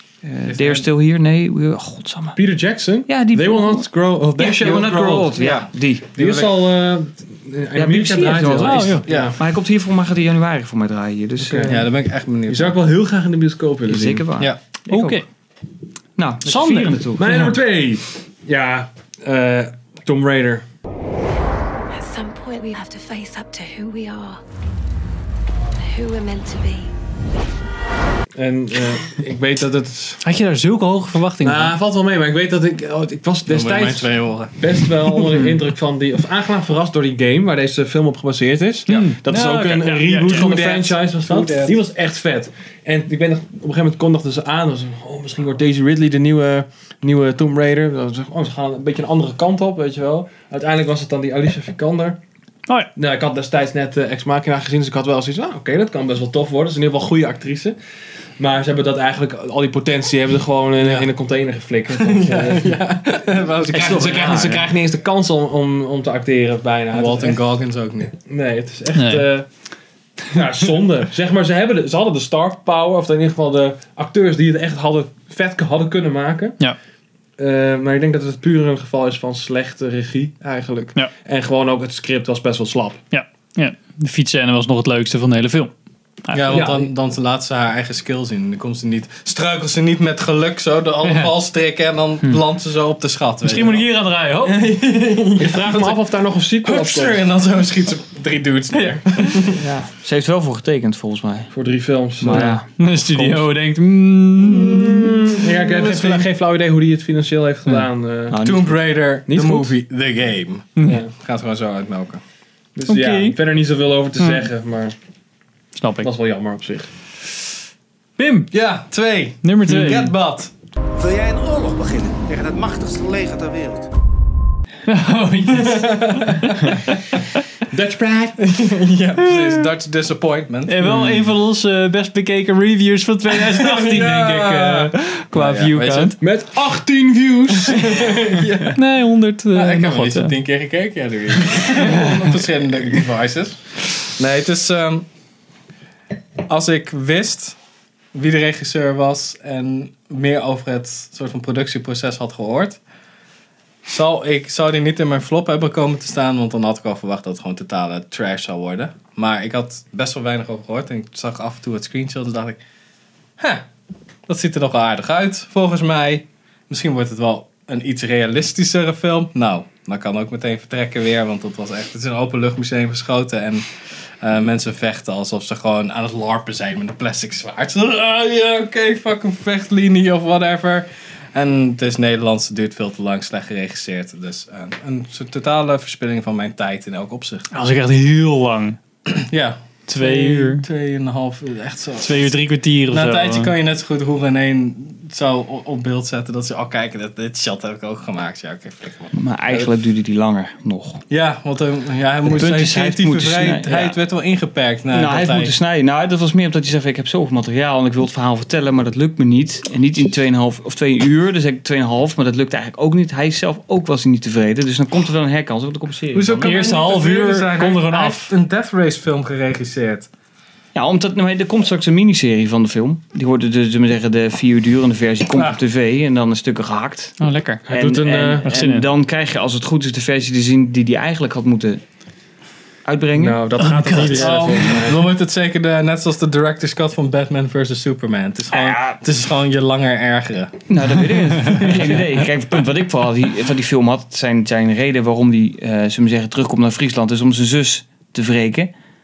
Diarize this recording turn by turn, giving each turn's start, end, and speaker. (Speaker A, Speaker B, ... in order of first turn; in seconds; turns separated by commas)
Speaker A: 0.2-2.4, Speaker B: 0.5-0.9, Speaker C: 2.4-5.4, Speaker A: 3.0-6.1, Speaker B: 4.6-4.8, Speaker B: 5.3-6.7, Speaker C: 6.1-9.4, Speaker A: 7.7-11.8, Speaker D: 8.6-9.0, Speaker B: 9.1-9.4, Speaker C: 11.4-11.9, Speaker B: 11.6-12.8, Speaker C: 12.4-14.3, Speaker A: 13.9-15.2, Speaker D: 14.9-15.2, Speaker A: 16.2-17.3, Speaker D: 16.4-17.5, Speaker C: 17.2-20.6, Speaker E: 21.9-24.4, Speaker E: 25.8-26.9, Speaker C: 28.3-30.2, Speaker D: 30.2-31.7, Speaker C: 31.4-52.2, Speaker B: 33.5-35.4, Speaker D: 38.9-40.5, Speaker A: 38.9-40.9, Speaker B: 40.5-41.8, Speaker C: 52.9-57.8, Speaker C: 58.4-62.8, Speaker B: 60.8-61.1, Speaker B: 61.9-64.6, Speaker C: 63.7-67.4, Speaker A: 63.7-64.6, Speaker B: 66.9-68.1, Speaker C: 68.2-69.5, Speaker D: 68.9-69.3, Speaker C: 70.3-76.5, Speaker C: 77.4-83.0, Speaker D: 83.1-85.7, Speaker D: 86.2-86.7, Speaker B: 86.3-93.9, Speaker C: 86.5-86.9, Speaker D: 91.0-91.3, Speaker D: 93.4-94.6, Speaker B: 94.5-96.0, Speaker C: 95.4-97.2, Speaker B: 96.6-99.6, Speaker C: 99.6-99.9, Speaker A: 99.9-101.5, Speaker C: 101.5-102.6, Speaker A: 102.2-103.5, Speaker D: 102.8-105.2, Speaker C: 104.9-108.4, Speaker B: 105.3-106.2, Speaker A: 108.3-108.9, Speaker B: 108.4-112.2, Speaker C: 109.2-109.7, Speaker C: 110.8-111.1, Speaker C: 112.8-114.9, Speaker D: 112.9-113.4, Speaker D: 114.2-114.5, Speaker D: 115.8-116.1, Speaker C: 116.0-116.9, Speaker D: 118.2-118.5, Speaker B: 118.5-120.5, Speaker D: 119.4-120.1, Speaker F: 120.9-123.9, Speaker D: 124.9-126.7, Speaker B: 125.7-126.5, Speaker C: 127.7-128.4, Speaker B: 128.4-130.8, Speaker D: 129.3-129.6, Speaker D: 130.7-136.2, Speaker B: 133.5-136.2, Speaker C: 136.2-138.7, Speaker B: 137.7-138.8, Speaker D: 138.7-140.3, Speaker B: 139.5-145.1, Speaker B: 146.5-147.6, Speaker B: 148.1-152.8, Speaker B: 153.9-162.6, Speaker B: 163.4-163.7, Speaker B: 164.3-173.7, Speaker B: 174.2-187.4, Speaker D: 187.5-188.8, Speaker B: 189.1-199.7, Speaker D: 189.9-190.6, Speaker D: 192.0-193.5, Speaker A: 199.1-201.0, Speaker B: 201.1-205.5, Speaker A: 202.2-204.0, Speaker A: 204.9-216.6, Speaker B: 216.1-220.1, Speaker D: 216.4-218.3, Speaker A: 220.7-231.8, Speaker D: 227.2-227.7, Speaker C: 227.7-228.5, Speaker D: 228.4-228.9, Speaker A: 232.8-233.4, Speaker C: 233.1-235.1, Speaker D: 233.6-234.4, Speaker B: 234.1-240.6, Speaker A: 238.5-239.0, Speaker A: 240.7-248.7, Speaker B: 241.4-242.0